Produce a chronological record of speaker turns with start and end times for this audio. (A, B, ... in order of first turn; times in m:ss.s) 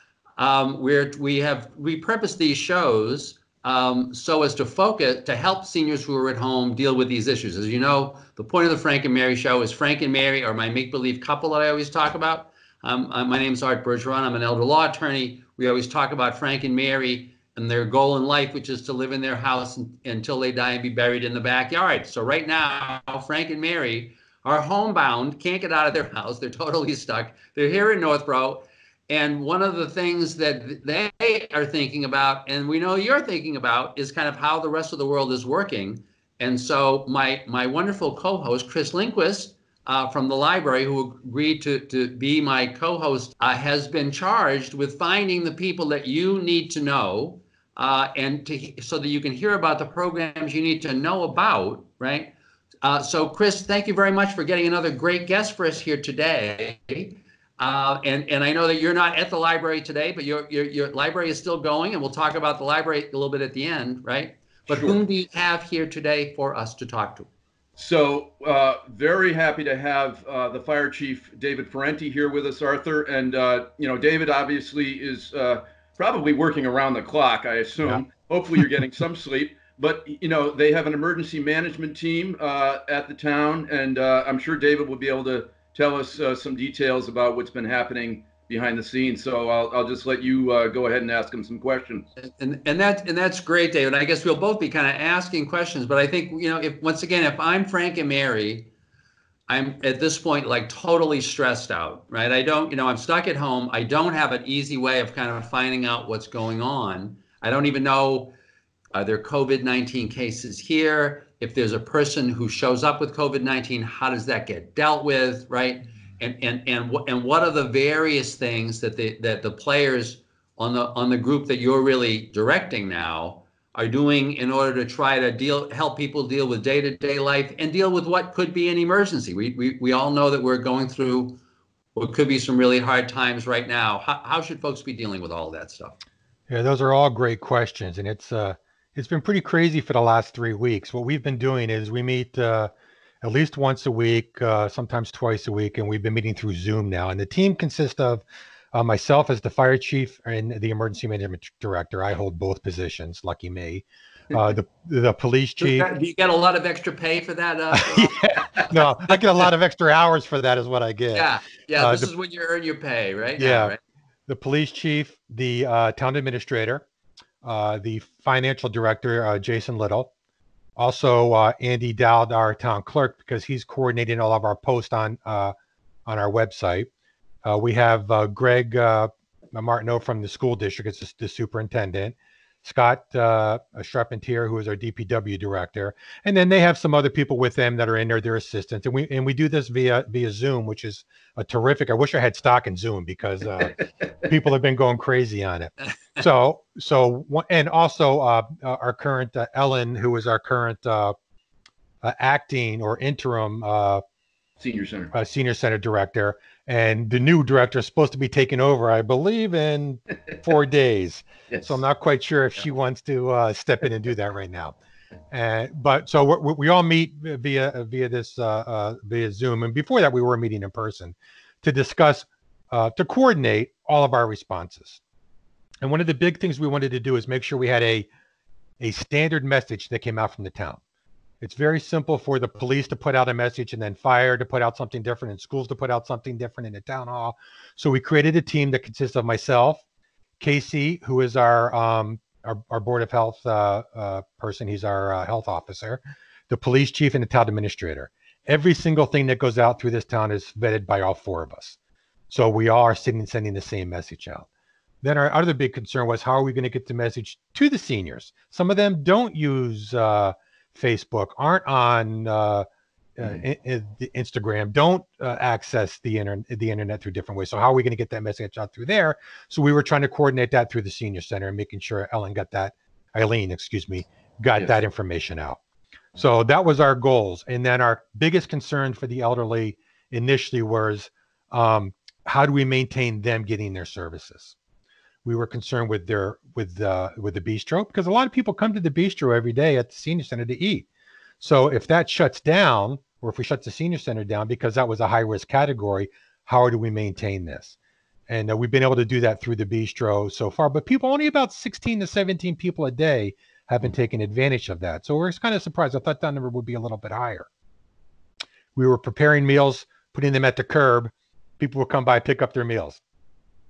0:00.4-1:07.3 A
1:04.7-1:05.0 B
1:07.8-1:32.1 B
1:32.2-1:38.7 A
1:39.5-1:48.3 A
1:48.9-2:11.4 A
2:12.0-2:16.0 A
2:16.5-2:22.7 C
2:23.2-2:35.9 C
2:35.6-2:39.2 A
2:37.7-2:42.1 C
2:41.1-2:43.8 A
2:43.4-2:43.8 C
2:44.3-2:46.9 C
2:47.4-2:50.1 C
2:50.8-2:55.5 C
2:56.1-2:56.9 C
2:57.4-3:21.2 C
3:22.0-3:24.0 C
3:24.6-3:25.1 B
3:25.1-3:34.8 C
3:31.5-3:31.8 B
3:35.3-3:45.0 C
3:45.8-3:48.1 C
3:48.8-3:50.8 C
3:51.4-3:59.8 C
4:00.4-4:11.8 C
4:12.3-4:14.5 C
4:15.0-4:22.7 C
4:23.2-4:35.6 C
4:36.2-4:44.6 C
4:45.2-4:50.9 C
4:51.4-4:57.8 C
4:58.3-5:07.5 C
5:08.8-5:13.0 C